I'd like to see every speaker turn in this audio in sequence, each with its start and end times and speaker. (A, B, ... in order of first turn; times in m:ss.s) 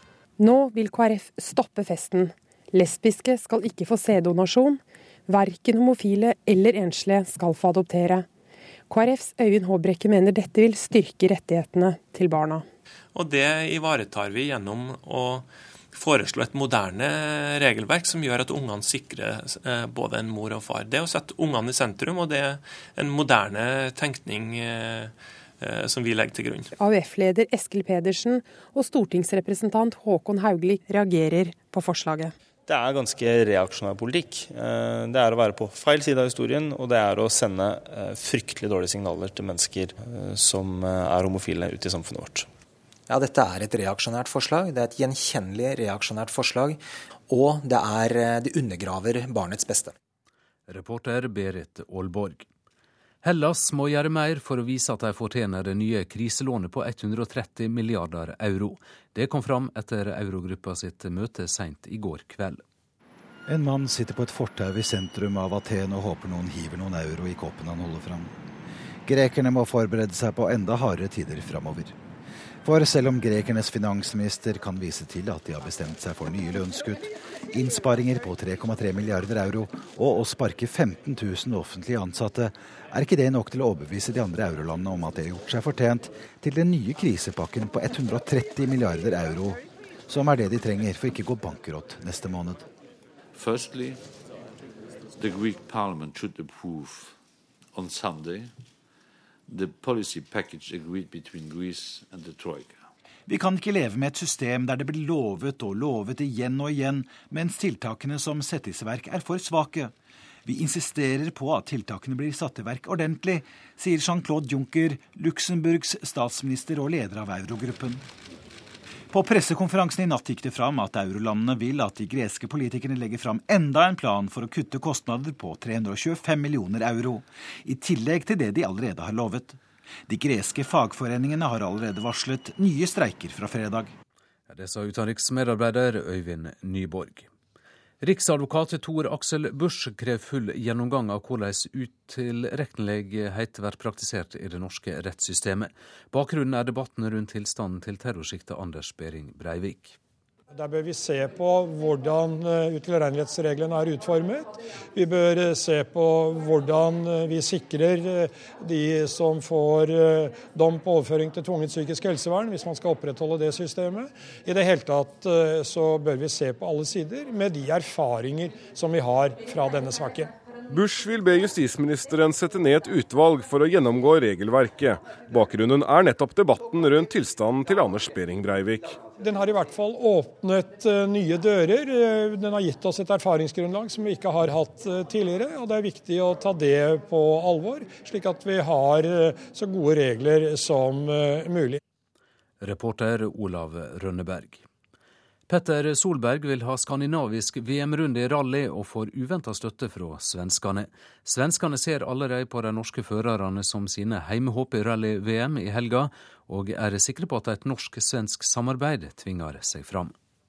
0:00.4-0:08.3 A
0:08.9-0:12.6 A
0:13.1-0:26.7 B
0:26.8-0:32.3 A
0:32.7-0:42.5 C
0:43.1-0:46.8 D
0:47.3-0:49.9 D
0:50.7-0:52.4 E
0:53.2-1:02.6 E
1:03.5-1:08.3 F
1:09.0-1:11.9 F
1:12.6-1:32.6 F
1:33.3-1:34.0 G
1:35.1-1:37.2 G
1:37.7-1:38.5 G
1:39.5-1:42.8 G
1:43.3-1:49.9 F
1:50.4-1:58.0 F
1:59.1-2:13.9 F
2:14.5-2:17.2 E
2:18.0-2:30.0 E
2:30.5-2:50.3 H
2:50.7-2:59.0 I
2:59.2-3:11.8 H
3:12.6-3:14.6 E
3:15.5-3:30.1 E